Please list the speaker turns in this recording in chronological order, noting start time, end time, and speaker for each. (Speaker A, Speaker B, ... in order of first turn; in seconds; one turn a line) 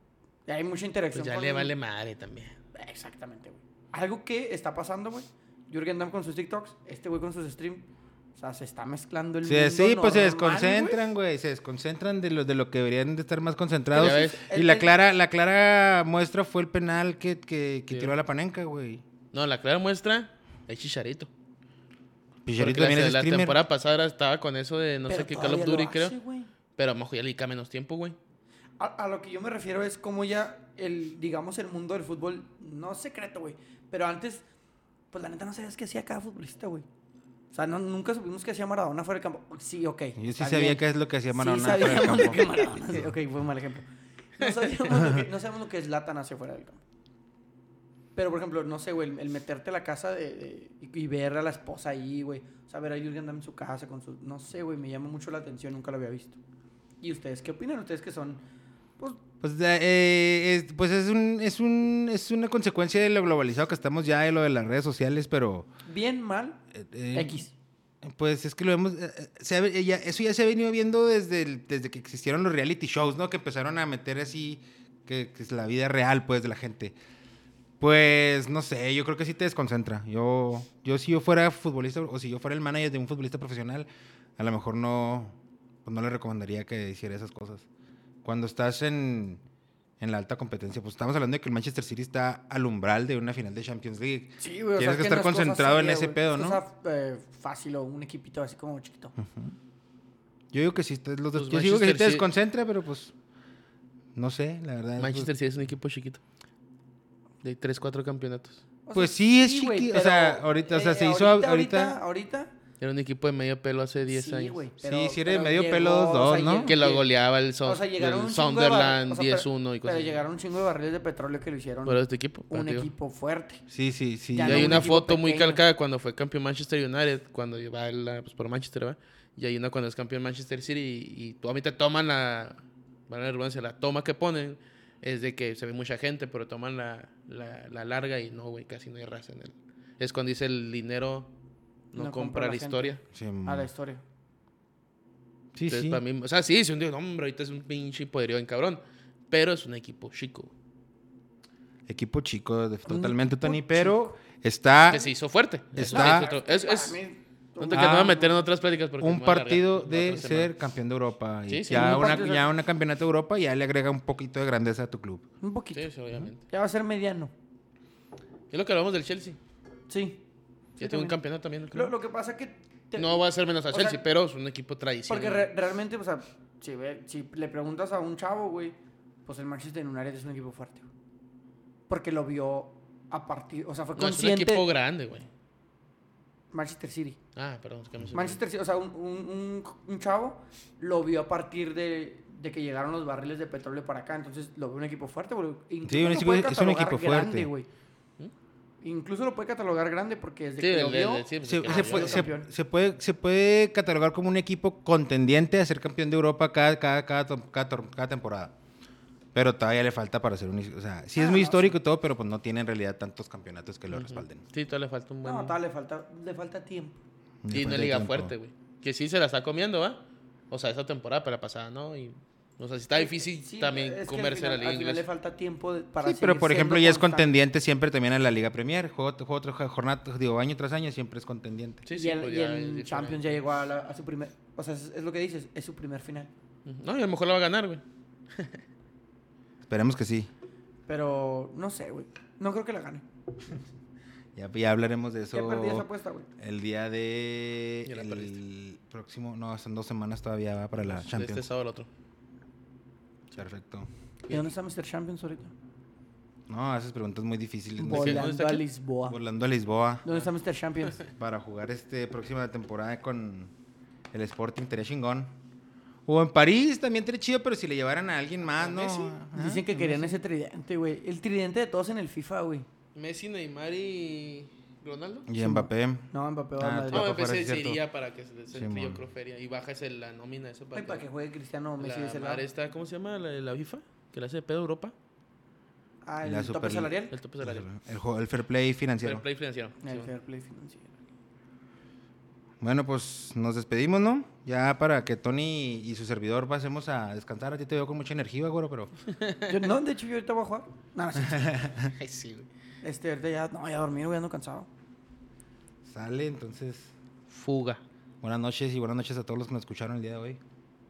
Speaker A: 0.5-1.7
Speaker B: 1.1-2.6
Speaker A: 2.7-11.1
Speaker C: 9.4-19.0
Speaker A: 13.9-14.9
Speaker B: 14.0-14.4
Speaker B: 17.9-18.2
Speaker B: 19.3-21.3
Speaker C: 22.5-23.6
Speaker B: 22.6-26.2
Speaker A: 25.1-26.5
Speaker B: 26.8-28.2
Speaker A: 28.8-34.5
Speaker A: 35.1-36.9
Speaker A: 37.5-43.9
Speaker C: 40.2-42.5
Speaker A: 44.4-46.8
Speaker B: 44.4-44.9
Speaker A: 48.2-56.4
Speaker A: 57.0-58.4
Speaker C: 59.4-65.7
Speaker A: 65.9-66.6
Speaker C: 66.7-67.4
Speaker A: 67.1-67.5
Speaker C: 68.0-77.0
Speaker C: 77.8-87.7
Speaker C: 88.2-89.4
Speaker C: 90.0-96.6
Speaker A: 94.4-99.2
Speaker C: 99.2-99.6
Speaker C: 100.5-103.1
Speaker B: 101.3-102.3
Speaker C: 104.2-105.3
Speaker B: 105.0-106.2
Speaker B: 107.4-108.6
Speaker A: 108.9-112.5
Speaker C: 108.9-112.0
Speaker B: 112.8-114.7
Speaker A: 114.1-117.1
Speaker C: 114.8-116.7
Speaker B: 116.6-120.2
Speaker A: 117.6-123.6
Speaker B: 121.9-122.9
Speaker C: 123.7-124.9
Speaker A: 124.3-125.6
Speaker B: 124.4-141.3
Speaker B: 141.9-143.0
Speaker A: 142.0-144.0
Speaker C: 143.1-143.7
Speaker C: 145.6-146.0
Speaker B: 145.7-150.5
Speaker C: 151.9-155.1
Speaker A: 152.9-154.2
Speaker B: 154.9-157.0
Speaker C: 155.7-156.3
Speaker A: 155.8-158.4
Speaker B: 157.6-160.6
Speaker C: 157.7-158.2
Speaker C: 159.0-165.2
Speaker B: 161.5-162.2
Speaker A: 161.7-162.5
Speaker A: 165.4-165.9
Speaker B: 165.7-166.4
Speaker A: 166.5-167.3
Speaker B: 168.5-169.4
Speaker A: 169.9-170.2
Speaker A: 170.8-171.2
Speaker B: 170.8-171.9
Speaker A: 171.7-174.0
Speaker B: 173.0-175.5
Speaker A: 175.1-180.9
Speaker A: 181.9-184.7
Speaker B: 184.0-185.3
Speaker A: 186.5-187.2
Speaker B: 187.4-188.4
Speaker A: 188.1-197.7
Speaker C: 195.9-197.5
Speaker A: 198.8-202.5
Speaker B: 200.6-202.3
Speaker C: 201.4-208.6
Speaker C: 209.3-214.4
Speaker A: 211.2-211.8
Speaker B: 213.9-215.6
Speaker A: 215.2-217.0
Speaker C: 217.4-218.3
Speaker B: 217.5-225.1
Speaker A: 223.0-227.3
Speaker C: 226.0-231.8
Speaker B: 231.8-233.4
Speaker A: 231.9-236.3
Speaker B: 236.7-238.6
Speaker C: 239.7-240.3
Speaker A: 240.9-243.1
Speaker C: 244.3-251.5
Speaker A: 245.3-246.3
Speaker B: 247.9-248.4
Speaker B: 250.8-251.9
Speaker C: 253.3-253.9
Speaker A: 254.3-255.5
Speaker C: 256.5-258.3
Speaker A: 257.8-259.2
Speaker B: 257.9-258.6
Speaker C: 259.1-260.1
Speaker A: 260.0-261.0
Speaker C: 261.1-263.5
Speaker C: 264.1-265.3
Speaker C: 266.1-270.2
Speaker B: 268.5-269.2
Speaker A: 269.3-272.7
Speaker B: 272.9-275.3
Speaker C: 275.3-277.8
Speaker A: 275.4-277.1
Speaker B: 276.9-281.1
Speaker C: 278.5-279.0
Speaker A: 280.7-282.4
Speaker B: 281.8-284.9
Speaker A: 286.0-287.1
Speaker C: 286.2-289.2
Speaker B: 287.1-287.7
Speaker B: 289.0-290.1
Speaker A: 289.8-290.9
Speaker C: 292.6-298.9
Speaker B: 299.1-299.7
Speaker A: 299.5-301.6
Speaker C: 301.2-301.9
Speaker B: 302.0-302.5
Speaker A: 302.8-304.7
Speaker C: 305.9-306.9
Speaker B: 307.3-307.8
Speaker C: 308.2-310.4